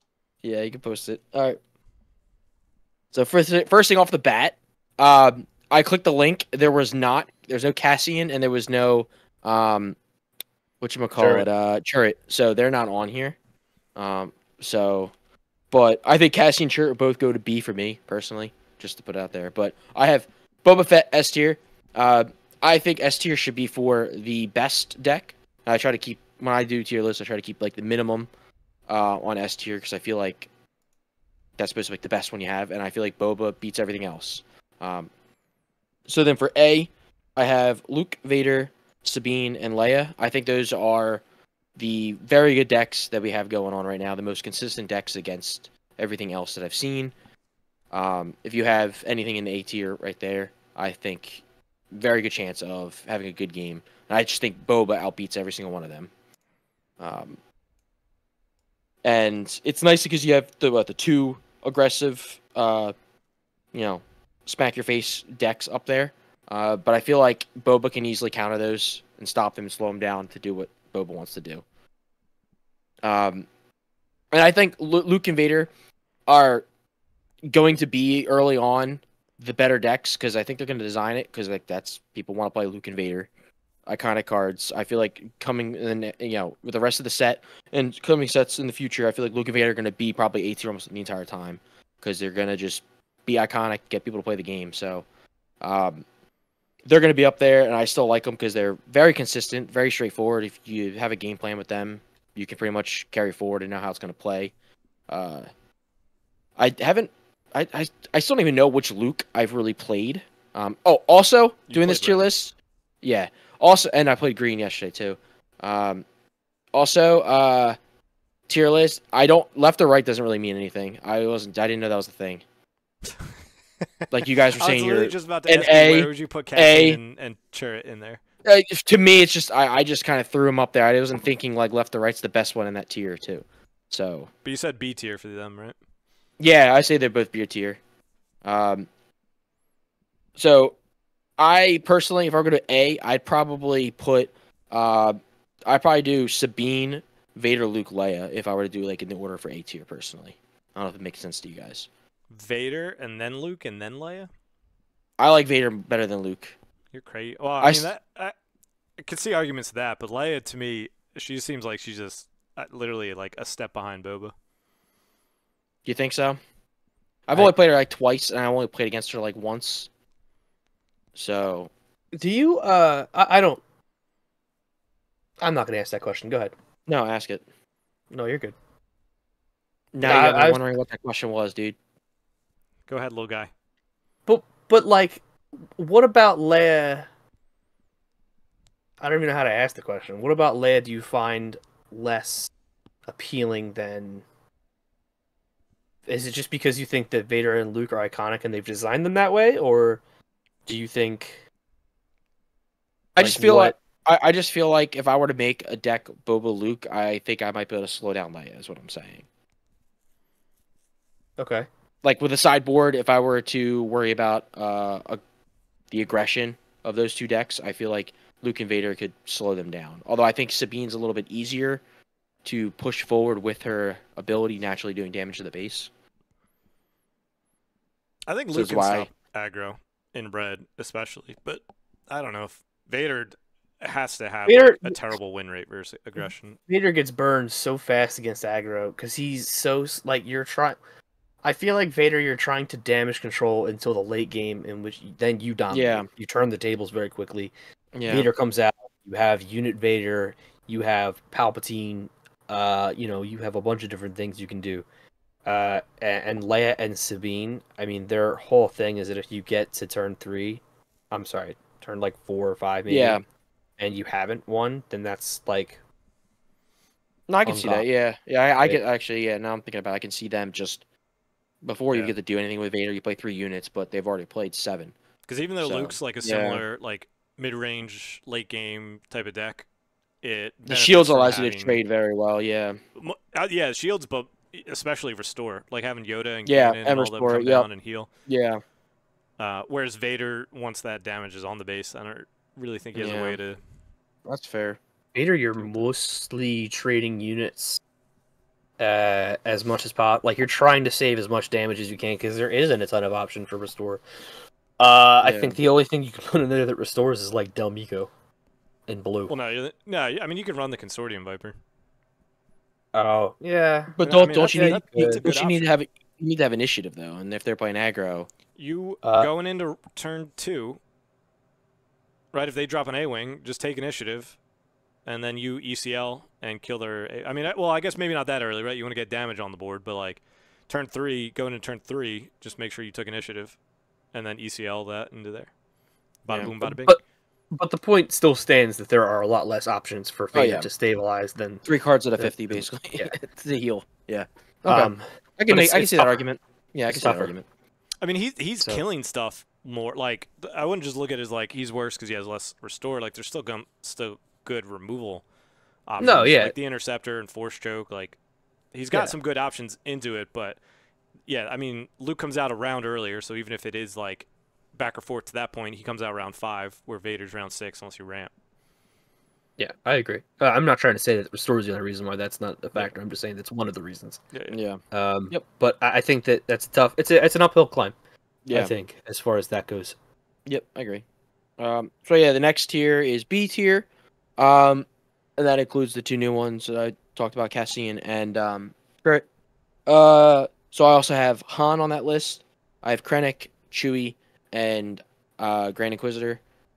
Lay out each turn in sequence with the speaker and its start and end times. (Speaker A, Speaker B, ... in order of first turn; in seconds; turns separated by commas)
Speaker A: 0.4-1.6, Speaker A: 3.1-10.0, Speaker A: 10.8-13.3, Speaker B: 11.2-11.4, Speaker A: 13.9-15.1, Speaker A: 15.7-28.3, Speaker A: 28.9-30.5, Speaker A: 31.6-35.1, Speaker A: 36.1-41.2, Speaker A: 41.8-47.1, Speaker A: 47.9-56.1, Speaker A: 57.0-57.4, Speaker A: 59.0-62.9, Speaker A: 63.7-71.6, Speaker A: 73.0-73.5, Speaker A: 74.3-75.7, Speaker A: 76.3-76.7, Speaker A: 77.5-83.3, Speaker A: 83.8-95.0, Speaker A: 95.6-96.0, Speaker A: 96.8-104.5, Speaker A: 105.1-105.5, Speaker A: 106.6-116.0, Speaker C: 111.7-112.2, Speaker A: 116.7-117.8, Speaker A: 118.5-122.4, Speaker A: 124.1-127.0, Speaker C: 124.6-128.2, Speaker A: 128.4-134.3, Speaker C: 134.4-135.8, Speaker A: 136.4-137.8, Speaker A: 138.4-138.9, Speaker A: 140.3-140.7, Speaker A: 141.4-151.9, Speaker C: 152.3-154.3, Speaker A: 155.2-156.6, Speaker C: 156.9-158.3, Speaker A: 157.6-157.9, Speaker C: 159.0-164.3, Speaker A: 165.8-166.4, Speaker A: 167.3-169.9, Speaker A: 171.1-171.7, Speaker B: 172.1-173.6, Speaker B: 175.4-176.5, Speaker A: 176.9-177.4, Speaker B: 178.1-178.5, Speaker A: 179.9-181.8, Speaker B: 180.0-180.6, Speaker C: 182.9-183.5, Speaker B: 184.3-185.2, Speaker B: 185.8-187.1, Speaker B: 189.0-192.5, Speaker B: 193.1-194.2, Speaker B: 196.1-200.0, Speaker B: 200.7-201.4, Speaker A: 203.2-209.2, Speaker B: 203.2-203.8, Speaker B: 211.4-211.7, Speaker A: 212.0-215.2, Speaker A: 215.9-221.8, Speaker A: 222.4-225.9, Speaker C: 228.3-236.6, Speaker A: 228.5-229.1, Speaker B: 234.5-235.0, Speaker B: 236.7-240.8, Speaker B: 241.4-247.5, Speaker A: 245.7-246.1, Speaker A: 247.9-248.3, Speaker B: 248.1-254.8, Speaker B: 255.4-263.2, Speaker A: 262.9-263.2, Speaker B: 263.8-265.8, Speaker A: 267.3-270.8, Speaker B: 267.4-267.8, Speaker A: 271.6-274.9, Speaker C: 275.3-279.6, Speaker A: 275.6-276.6, Speaker C: 280.2-281.8, Speaker A: 280.7-282.8, Speaker C: 283.0-288.1, Speaker A: 286.4-287.7, Speaker A: 288.3-288.6, Speaker C: 289.4-293.6, Speaker A: 292.9-293.4, Speaker A: 294.2-294.8, Speaker B: 295.1-297.8, Speaker B: 298.8-304.0, Speaker B: 304.8-308.1, Speaker A: 305.2-305.6, Speaker B: 308.9-309.3, Speaker C: 309.3-311.6, Speaker B: 312.9-315.2, Speaker A: 313.9-318.3, Speaker C: 314.0-315.7, Speaker C: 318.6-320.8, Speaker B: 319.0-319.3, Speaker C: 322.3-324.4, Speaker C: 325.1-333.6, Speaker C: 334.1-335.5, Speaker C: 336.2-337.0, Speaker B: 336.6-337.0, Speaker B: 337.5-341.6, Speaker A: 340.3-340.7, Speaker A: 341.6-347.4, Speaker B: 342.2-343.1, Speaker B: 344.6-346.2, Speaker B: 346.9-347.3, Speaker C: 348.0-355.2, Speaker C: 355.9-358.2, Speaker B: 356.0-356.5, Speaker C: 358.7-360.6, Speaker C: 361.3-368.3, Speaker B: 369.6-374.2, Speaker A: 374.5-375.4, Speaker B: 374.9-377.9, Speaker A: 378.4-378.7, Speaker B: 378.5-379.9, Speaker A: 380.4-381.0, Speaker A: 381.6-383.9, Speaker A: 384.4-389.2, Speaker A: 389.9-396.4